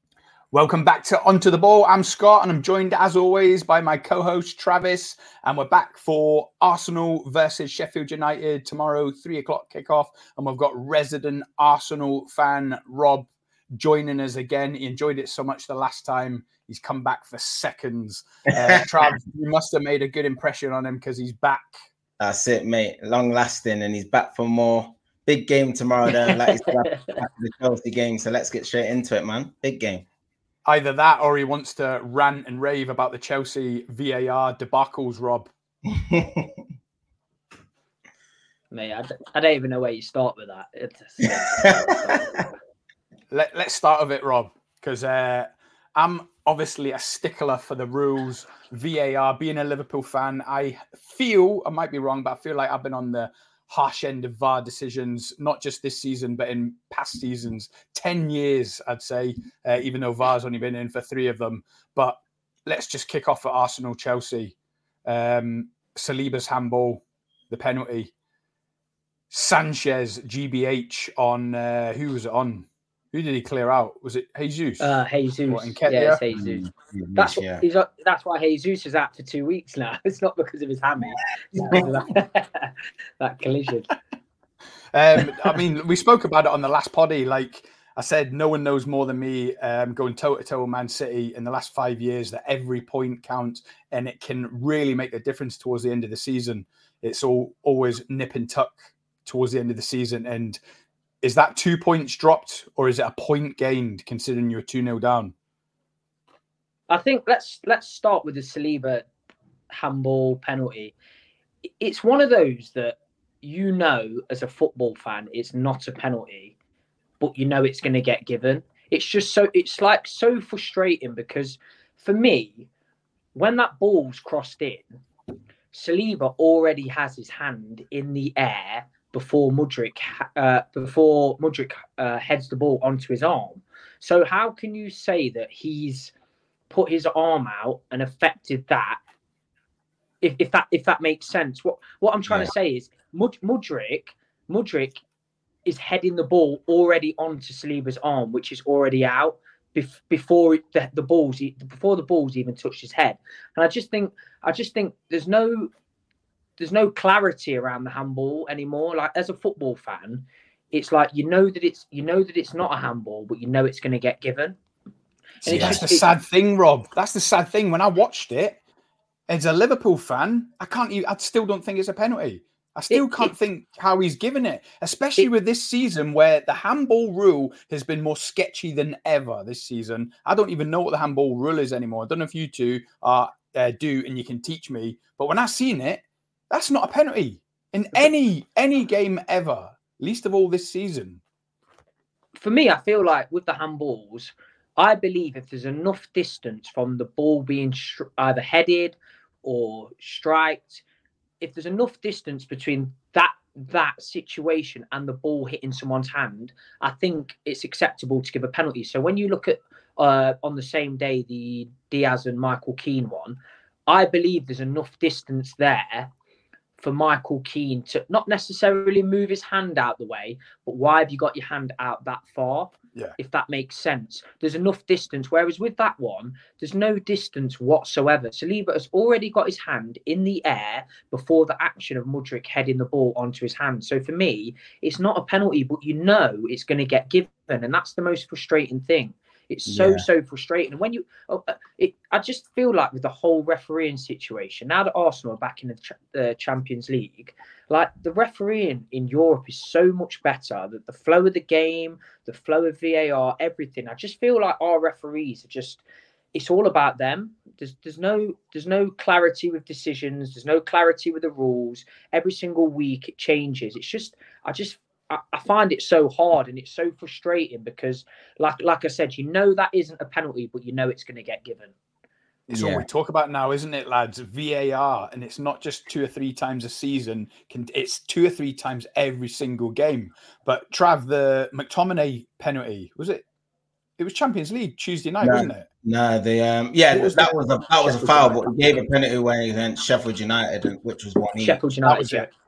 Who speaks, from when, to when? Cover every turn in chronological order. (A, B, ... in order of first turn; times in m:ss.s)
0:00.5-0:21.7 A
0:18.5-0:19.1 B
0:22.2-0:30.0 B
0:26.3-0:27.2 C
0:30.7-0:35.5 A
0:35.9-0:36.5 B
0:38.7-0:42.4 C
0:41.5-0:42.5 B
0:43.3-1:04.5 A
1:05.1-1:08.1 A
1:09.3-1:14.9 A
1:14.8-1:24.0 C
1:15.5-1:16.2 A
1:16.3-1:17.6 B
1:21.6-1:21.8 B
1:24.9-1:40.6 A
1:41.2-1:45.3 A
1:46.9-1:49.0 C
1:49.7-1:50.9 C
1:51.8-1:56.5 C
1:57.2-2:02.7 C
2:03.4-2:05.0 C
2:05.7-2:16.1 C
2:16.7-2:19.0 C
2:20.2-2:25.0 C
2:22.3-2:22.5 B
2:25.7-2:35.7 C
2:36.6-2:44.6 C
2:45.4-2:48.6 A
2:45.4-2:46.1 C
2:45.5-2:45.8 B
2:49.3-3:11.2 A
2:52.9-2:53.3 C
3:12.4-3:20.8 C
3:21.4-3:36.1 C
3:36.8-4:15.8 C
3:59.7-4:00.1 B
4:16.3-4:31.7 C
4:32.5-4:43.2 A
4:32.5-4:32.8 B
4:44.0-4:45.7 A
4:45.2-4:51.6 B
4:46.9-4:47.4 A
4:47.8-4:48.4 C
4:51.4-4:52.3 C
4:51.8-4:52.3 A